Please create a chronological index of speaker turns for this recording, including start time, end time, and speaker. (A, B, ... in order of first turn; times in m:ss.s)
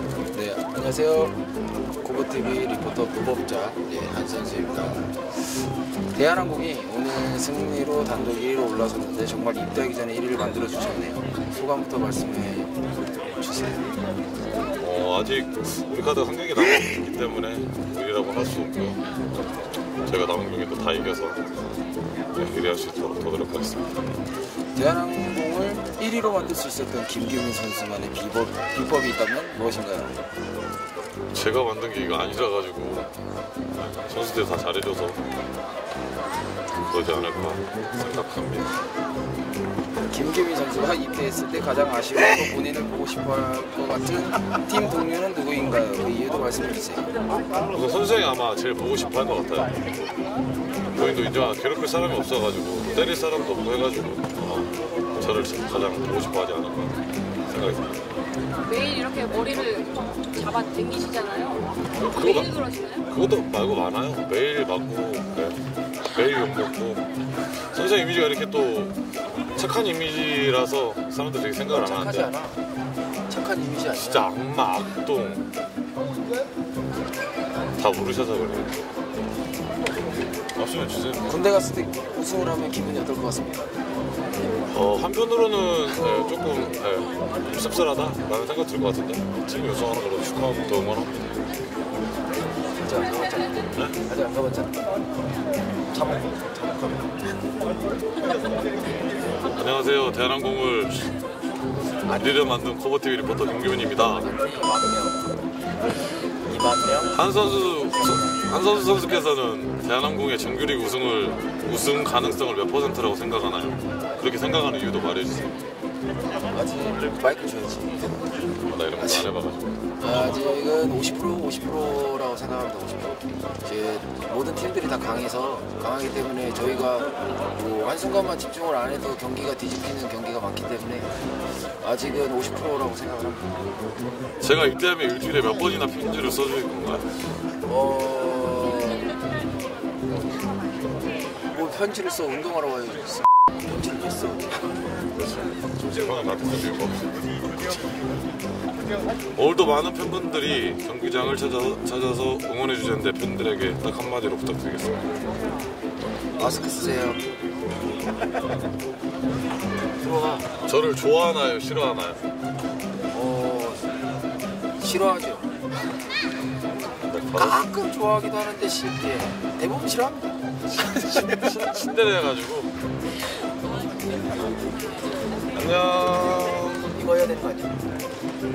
0:00.3-0:01.4 A
0:02.0-0:05.2 A
0:06.1-0:14.0 A
0:14.8-0:19.0 B
0:20.0-0:21.4 B
0:22.3-0:24.0 B
0:24.7-0:30.2 A
0:31.3-0:33.1 B
0:33.8-0:35.2 B
0:36.8-0:38.7 B
0:40.1-0:47.1 A
0:47.7-0:49.8 B
0:50.9-0:57.0 B
0:57.5-0:57.9 B
0:58.6-1:03.0 C
1:01.9-1:05.6 B
1:06.1-1:07.0 B
1:07.7-1:09.0 B
1:09.6-1:12.3 B
1:11.8-1:12.6 A
1:13.3-1:14.3 A
1:13.9-1:15.4 B
1:17.8-1:18.8 B
1:20.6-1:21.4 B
1:21.2-1:23.7 A
1:24.7-1:31.1 B
1:32.8-1:34.9 A
1:33.7-1:34.0 B
1:35.9-1:37.1 A
1:39.4-1:41.1 B
1:42.1-1:44.3 B
1:44.5-1:45.2 A
1:46.5-1:47.1 A
1:47.1-1:55.5 B
1:56.5-1:58.1 A
1:58.7-2:00.3 B
1:59.0-1:59.3 A
2:00.0-2:11.1 A
2:11.8-2:13.7 A
2:14.4-2:17.1 B
2:17.6-2:19.2 A
2:21.5-2:24.5 A
2:25.2-2:27.4 B
2:29.3-2:35.0 B
2:36.4-2:37.2 A
2:40.1-2:42.2 B
2:43.1-2:43.8 A
2:44.8-2:45.5 A
2:47.0-2:47.7 B
2:47.3-2:51.8 A
2:50.8-2:52.7 B
2:55.5-2:56.9 B
2:56.9-2:57.8 A